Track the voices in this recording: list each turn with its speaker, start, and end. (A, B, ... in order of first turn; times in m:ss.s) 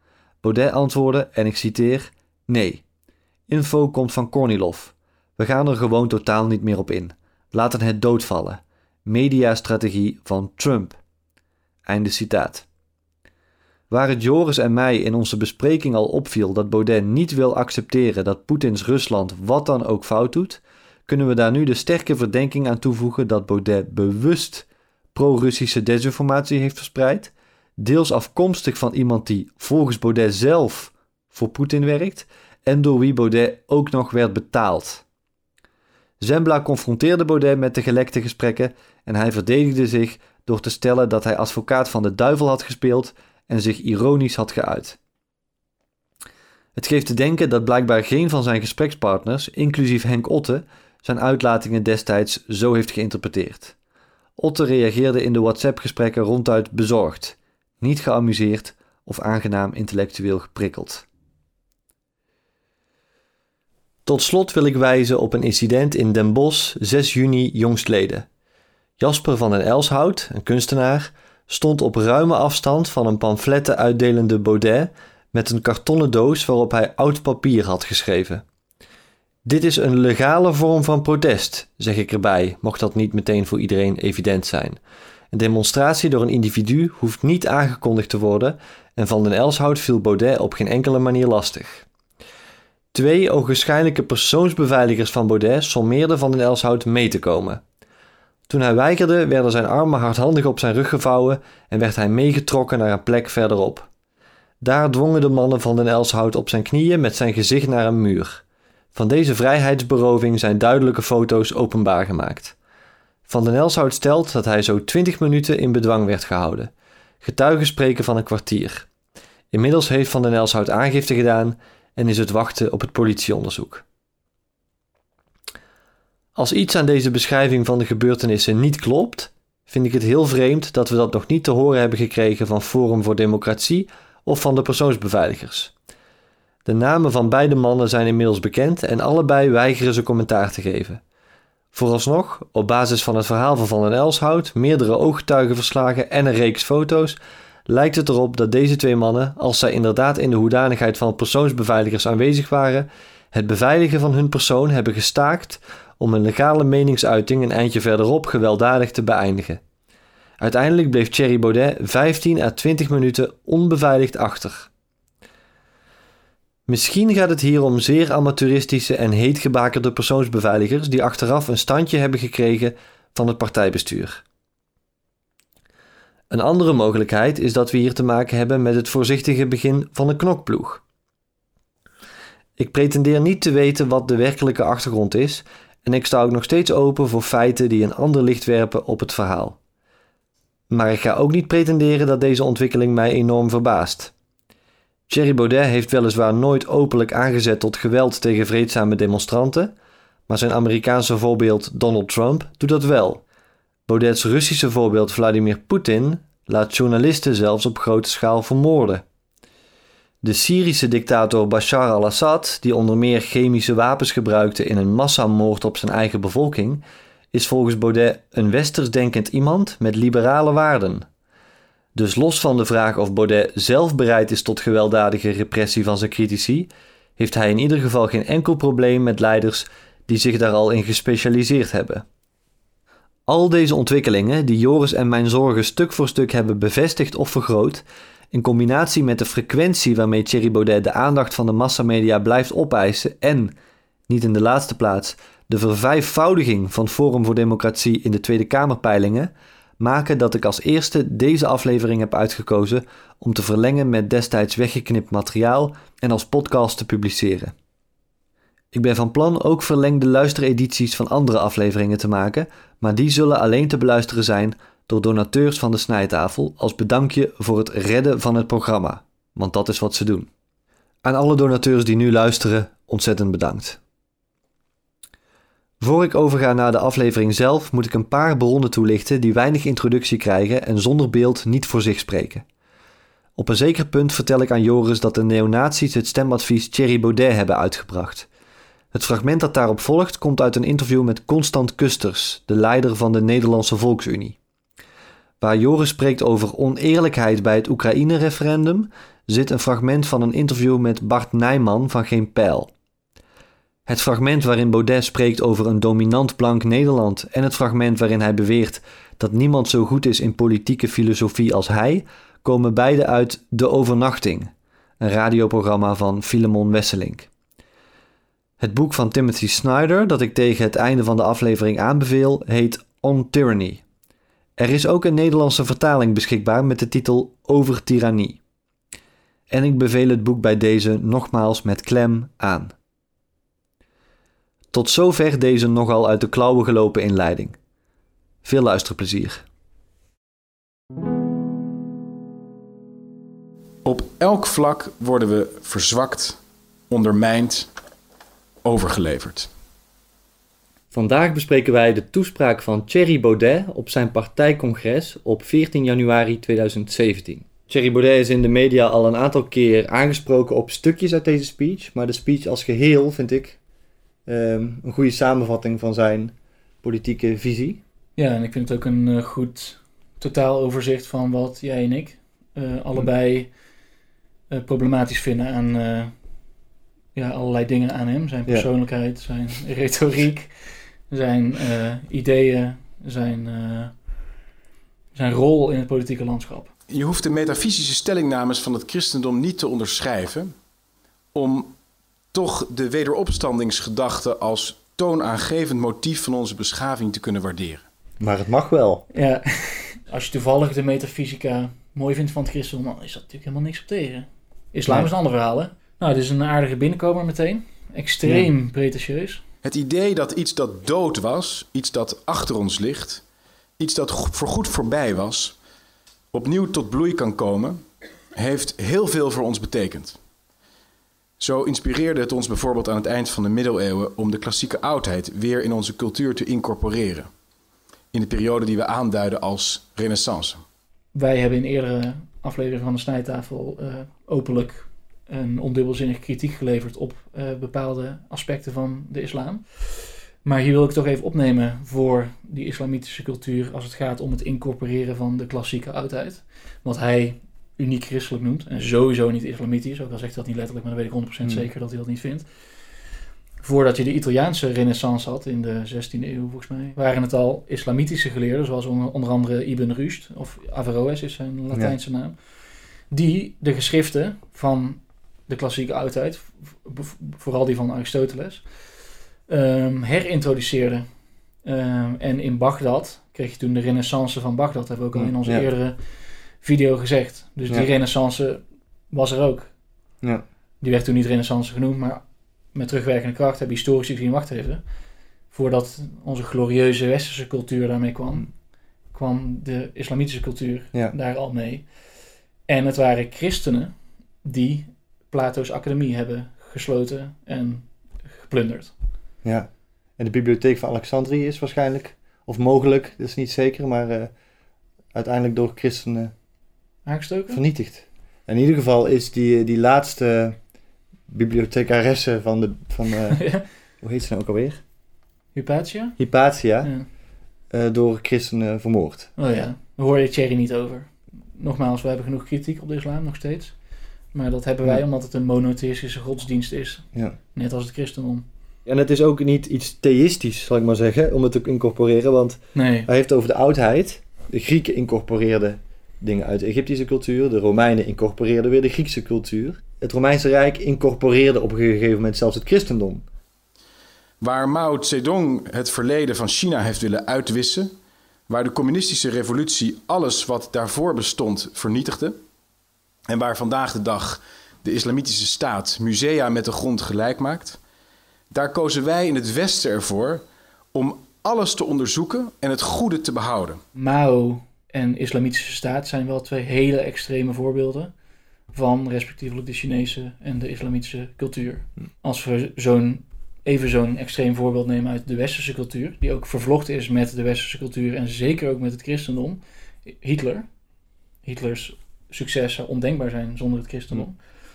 0:00.4-0:02.8 A
0:03.5-0:11.0 A
0:11.9-0:12.6 A
0:13.9-0:35.0 A
0:36.2-0:45.0 A
0:46.8-0:53.7 A
0:54.4-1:01.0 A
1:04.1-1:08.3 A
1:09.0-1:18.4 A
1:19.4-1:24.8 A
1:25.3-1:31.8 A
1:32.9-1:37.6 A
1:38.5-1:43.9 A
1:44.6-1:48.4 A
1:48.9-1:52.6 A
1:53.3-1:56.7 A
1:57.2-1:58.9 A
1:59.5-2:03.8 A
2:06.4-2:15.7 A
2:16.7-2:21.0 A
2:21.7-2:39.6 A
2:40.4-2:44.7 A
2:46.7-2:54.2 A
2:56.3-3:00.8 A
3:02.6-3:09.6 A
3:10.7-3:14.1 A
3:15.1-3:19.7 A
3:20.3-3:23.2 A
3:23.9-3:29.0 A
3:30.2-3:41.1 A
3:42.0-3:52.0 A
3:53.3-4:03.5 A
4:04.1-4:17.5 A
4:18.7-4:30.3 A
4:31.0-4:33.8 A
4:35.8-4:42.4 A
4:43.4-4:48.3 A
4:48.9-4:54.4 A
4:55.4-5:02.7 A
5:03.9-5:14.5 A
5:15.0-5:17.3 A
5:18.6-5:23.8 A
5:24.6-5:28.4 A
5:29.5-5:32.7 A
5:34.7-5:37.6 A
5:38.4-5:39.4 A
5:43.8-5:46.4 B
5:46.9-5:47.7 B
5:48.6-5:49.5 B
5:50.9-6:03.6 A
6:04.3-6:07.8 A
6:08.2-6:13.5 C
6:14.5-6:16.1 C
6:17.2-6:23.9 C
6:25.1-6:26.7 C
6:26.9-6:30.5 B
6:31.3-6:31.7 B
6:32.3-6:37.8 B
6:38.2-6:39.0 A
6:39.1-6:49.4 C
6:49.6-6:53.2 B
6:53.8-6:55.6 B
6:56.3-6:57.8 B
6:58.4-7:00.2 B
7:01.4-7:07.3 B
7:08.1-7:10.6 B
7:11.1-7:19.6 C
7:20.4-7:32.5 C
7:33.6-7:42.4 C
7:43.1-7:48.6 C
7:49.5-7:51.1 C
7:51.6-7:56.0 C
7:55.2-7:55.7 A
7:56.6-7:59.7 C
8:00.8-8:04.8 C
8:05.5-8:08.5 C
8:09.1-8:11.9 C
8:12.7-8:13.9 C
8:14.4-8:18.9 C
8:19.4-8:24.3 A
8:25.1-8:26.3 A
8:27.1-8:27.6 C
8:27.5-8:30.6 A
8:31.3-8:33.4 A
8:33.3-8:33.6 C
8:34.0-8:34.8 A
8:35.6-8:36.2 C
8:36.2-8:36.9 A
8:36.8-8:37.1 C
8:37.7-8:39.3 A
8:39.4-8:43.7 C
8:44.3-8:48.5 C
8:48.9-9:03.2 A
8:52.8-8:53.1 C
9:04.4-9:07.9 B
9:08.5-9:12.4 B
9:13.3-9:17.8 B
9:18.5-9:23.8 B
9:24.0-9:28.1 C
9:28.7-9:40.7 C
9:41.4-9:44.4 C